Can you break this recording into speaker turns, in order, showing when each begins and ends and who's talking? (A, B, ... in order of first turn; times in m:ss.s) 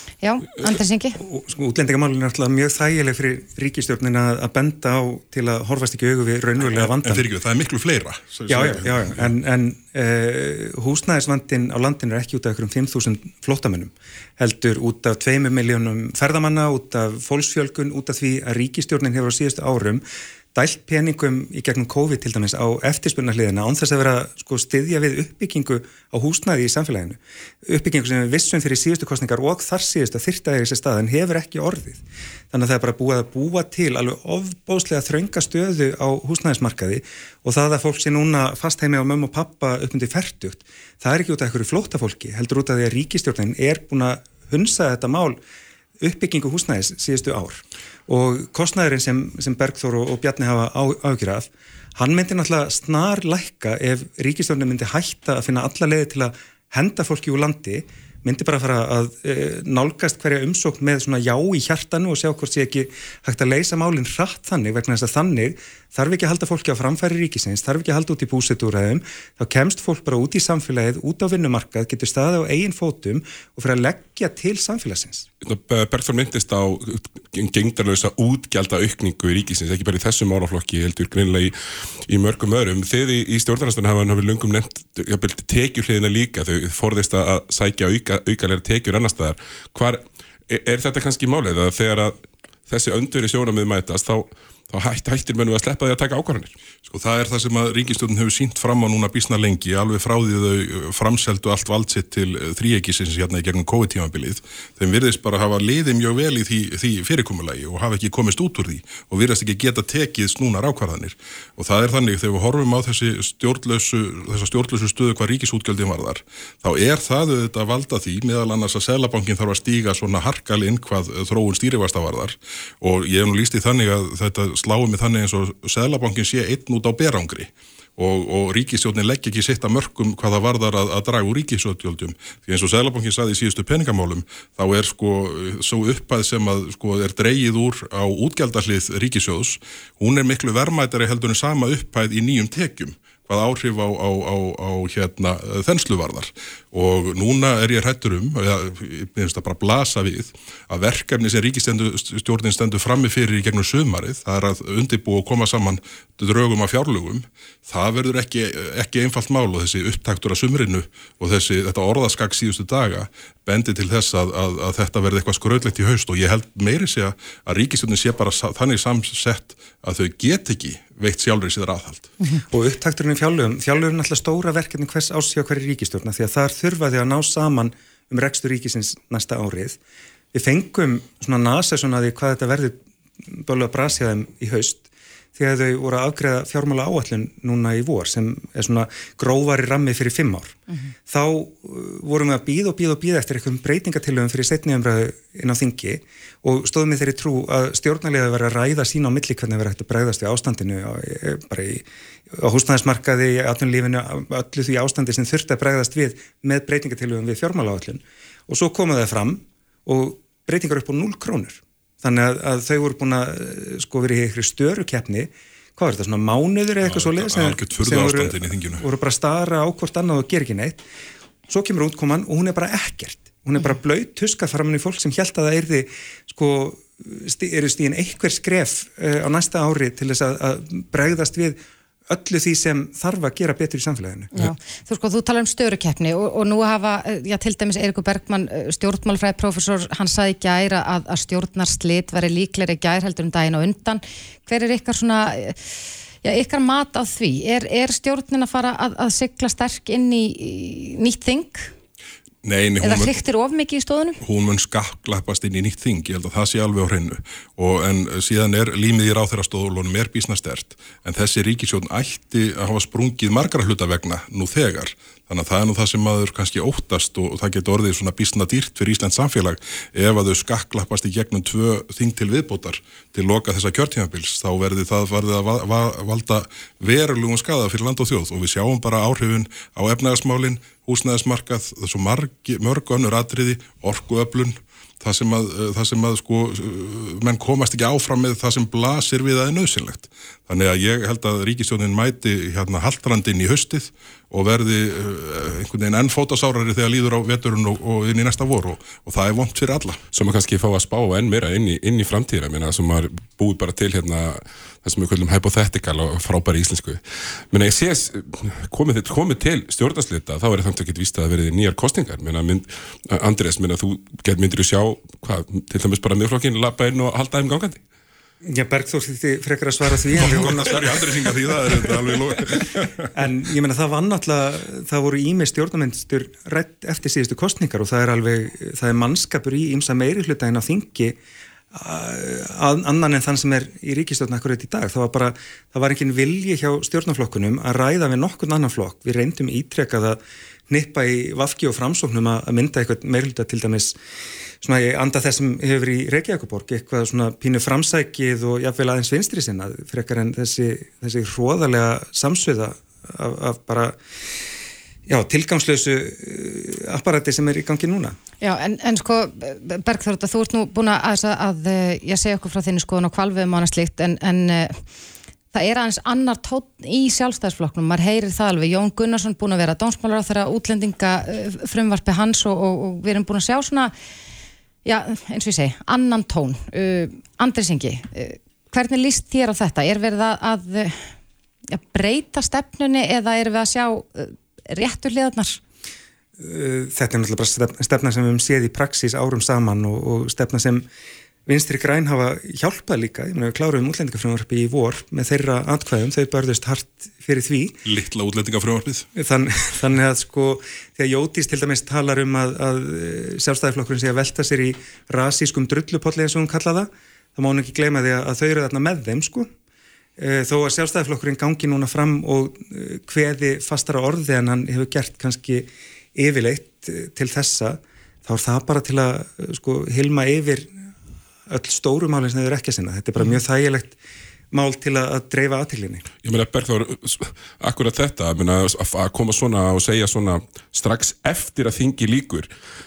0:00.2-0:01.2 A
0:01.2-0:07.3 B
0:06.6-0:09.3 C
0:08.5-0:45.4 B
0:46.0-1:15.3 B
1:15.4-1:36.5 D
1:36.9-2:52.1 C
2:52.5-2:59.8 B
3:00.3-3:40.8 B
3:36.8-3:38.8 C
3:41.5-3:54.3 B
3:54.3-4:05.6 A
4:06.2-4:11.7 A
4:12.4-4:13.1 C
4:12.8-4:14.2 A
4:14.2-5:00.0 C
5:00.1-5:17.8 D
5:18.5-5:21.6 B
5:20.2-5:23.1 C
5:23.1-5:31.2 B
5:31.7-5:44.0 B
5:44.6-5:54.0 B
5:55.1-5:58.2 B
5:58.4-6:04.8 A
6:05.5-6:13.9 A
6:14.8-6:21.1 A
6:21.7-6:25.6 A
6:26.4-6:30.8 B
6:31.5-6:37.7 B
6:37.8-6:39.1 C
6:39.2-6:49.5 B
6:50.2-7:00.7 B
7:01.5-7:04.0 B
7:04.5-7:06.1 B
7:06.2-7:12.5 D